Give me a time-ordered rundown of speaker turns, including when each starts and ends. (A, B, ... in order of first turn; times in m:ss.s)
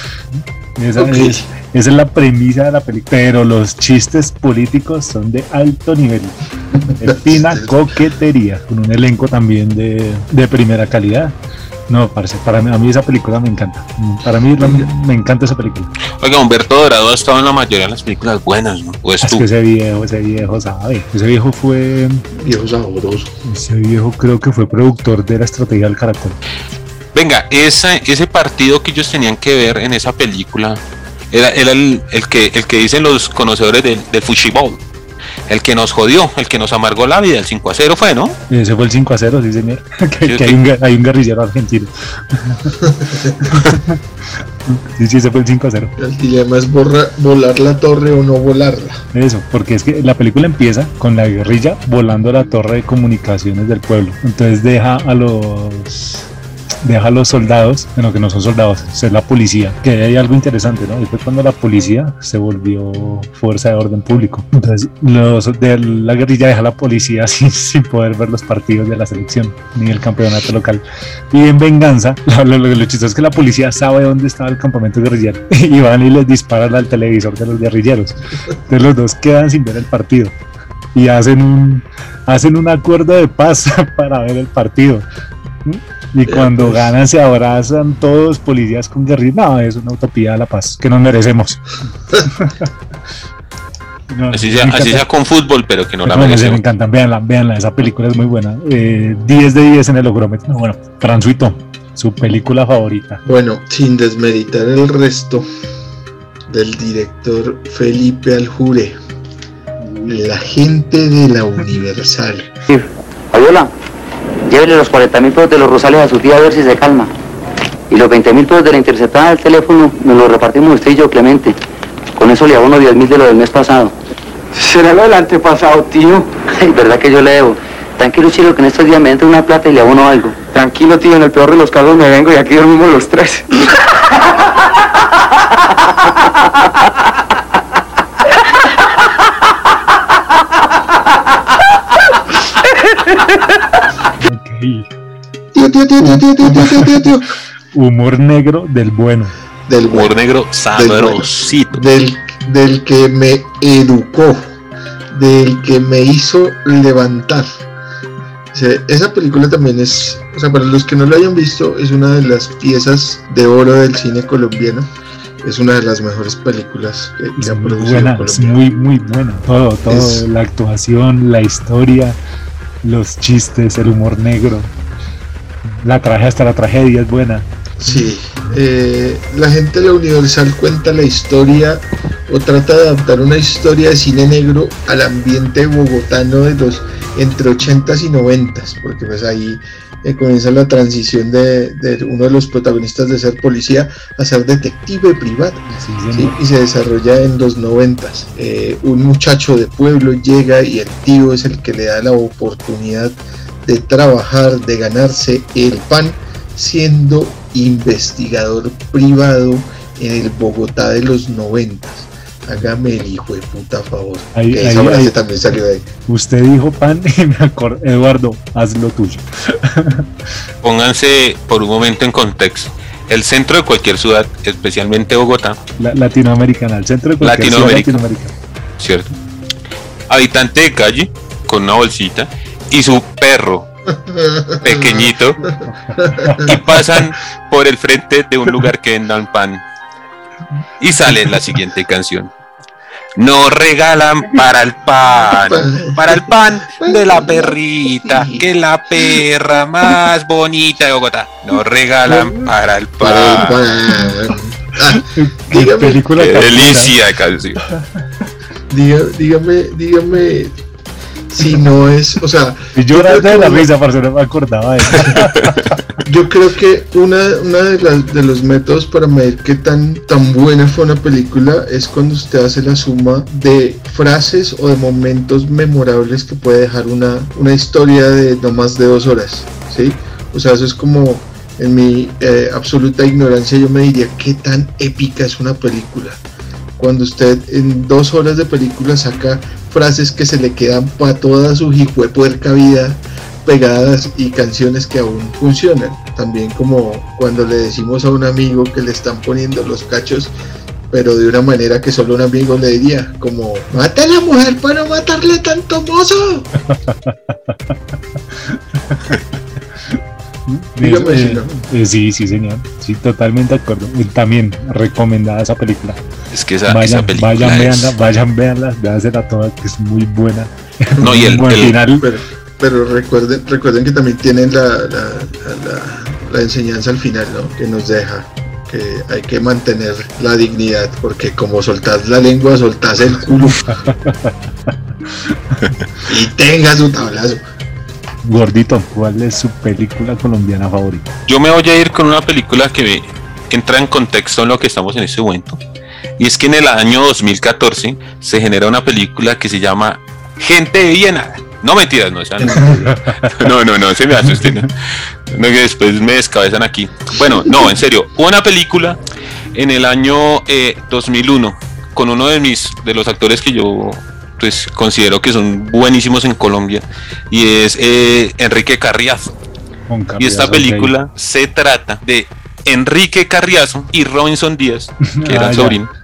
0:00.3-0:06.4 A
0:01.0-0:01.5 B
0:06.9-0:11.3 A
0:07.0-0:07.9 B
0:11.9-0:15.9 A
0:14.6-0:14.9 B
0:16.2-0:19.4 C
0:19.2-0:22.2 A
0:22.3-0:23.3 B
0:23.4-0:26.4 A
0:27.1-0:34.8 C
0:35.5-0:38.4 C
0:38.5-0:44.0 A
0:40.2-0:40.6 C
0:42.9-0:43.2 B
0:44.6-0:45.9 A
0:46.0-0:49.0 B
0:49.1-0:56.3 A
0:56.8-1:20.3 A
1:20.9-1:25.0 A
1:25.6-1:31.6 A
1:26.3-1:26.9 B
1:32.3-1:32.7 A
1:34.1-1:35.0 A
1:34.3-1:36.6 C
1:36.0-1:43.2 A
1:43.2-1:45.5 B
1:46.5-1:49.0 B
1:49.8-1:50.2 A
1:50.1-1:52.5 B
1:52.7-1:53.7 D
1:54.5-1:57.1 D
1:57.9-2:01.6 D
2:02.2-2:03.9 D
2:04.5-2:06.3 E
2:06.5-2:10.4 D
2:10.5-2:13.5 E
2:24.2-2:24.9 A
2:25.5-2:27.3 B
2:27.7-2:29.3 A
2:29.7-2:30.1 B
2:29.9-2:31.8 C
2:30.7-2:34.4 B
2:35.1-2:37.5 B
2:38.5-2:44.9 B
2:45.4-2:48.6 B
2:47.4-2:52.2 A
2:49.9-2:50.2 B
2:52.8-2:54.7 A
2:55.6-2:57.5 A
2:57.8-3:35.9 B
3:15.7-3:16.4 A
3:34.3-3:35.1 A
3:36.1-3:40.1 A
3:40.6-3:45.6 C
3:45.8-3:48.3 A
3:47.2-3:48.0 C
3:48.8-3:49.1 C
3:50.1-3:53.7 C
3:53.9-3:55.1 B
3:54.6-3:55.5 C
3:56.0-3:56.6 B
3:56.1-3:56.5 A
3:56.4-3:59.6 C
4:00.8-4:02.3 C
4:03.2-4:13.6 C
4:05.3-4:08.4 B
4:13.0-4:16.0 B
4:15.1-4:16.9 A
4:16.2-4:17.6 C
4:18.7-4:20.6 B
4:21.3-4:23.7 B
4:22.7-4:25.7 A
4:26.0-4:46.2 B
4:46.8-5:00.3 B
5:00.9-5:06.5 B
5:06.7-5:07.5 A
5:08.5-5:09.2 A
5:10.5-5:16.1 A
5:10.8-5:11.5 B
5:16.3-5:17.9 C
5:16.7-5:22.0 A
5:21.0-5:21.8 C
5:22.0-5:33.7 B
5:33.4-5:34.3 A
5:35.3-5:35.7 A
5:36.1-5:37.4 B
5:38.2-5:41.1 A
5:41.3-5:45.6 C
5:46.2-5:54.7 C
5:52.4-5:52.7 B
5:52.8-5:53.3 A
5:55.3-5:59.0 C
5:59.5-6:09.4 C
6:09.9-6:10.9 A
6:10.2-6:15.9 C
6:15.1-6:15.8 A